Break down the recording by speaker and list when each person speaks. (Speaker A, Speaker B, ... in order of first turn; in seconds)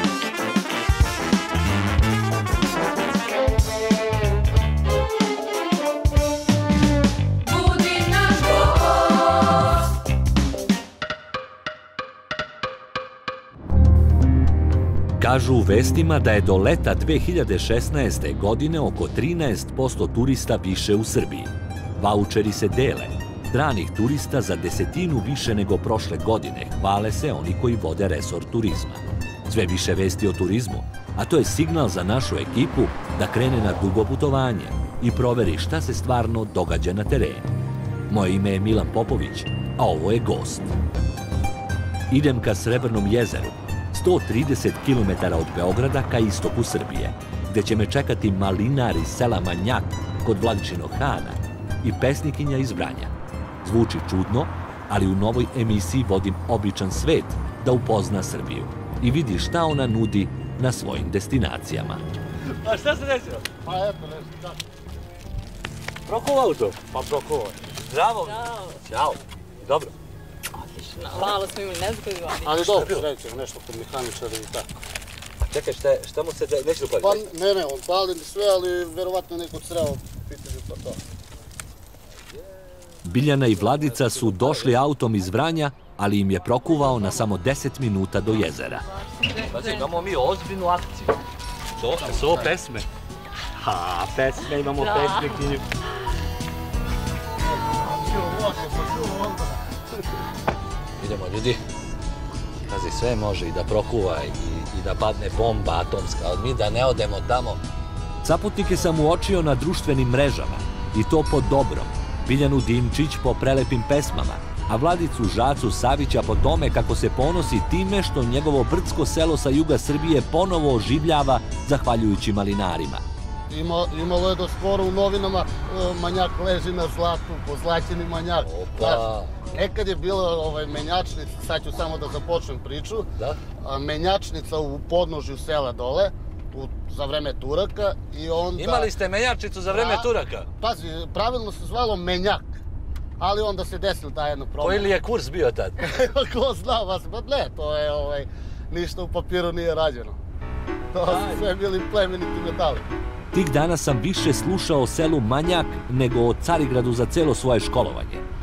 Speaker A: 7.4-9.8, 68.3-68.8, 70.8-72.6, 88.7-90.1, 94.8-95.5
Speaker B: 15.2-37.5, 38.1-40.7, 42.1-62.0, 83.0-88.9, 108.2-123.0, 153.3-158.2
Speaker C: 62.6-63.5, 66.1-66.9, 67.7-69.9, 71.0-71.2, 72.6-73.1, 75.5-77.2, 83.4-84.8, 89.5-91.2, 91.8-92.9, 93.6-95.6, 101.0-101.6, 102.7-107.6, 128.4-129.3, 138.6-140.5, 144.6-145.8, 151.0-151.4
Speaker D: 63.6-64.6, 66.9-67.6, 72.4-74.7, 77.0-81.0, 91.9-92.5, 97.5-100.0, 123.5-133.1, 133.6-138.9, 139.7-142.5, 143.2-144.9, 145.8-150.2, 150.9-152.8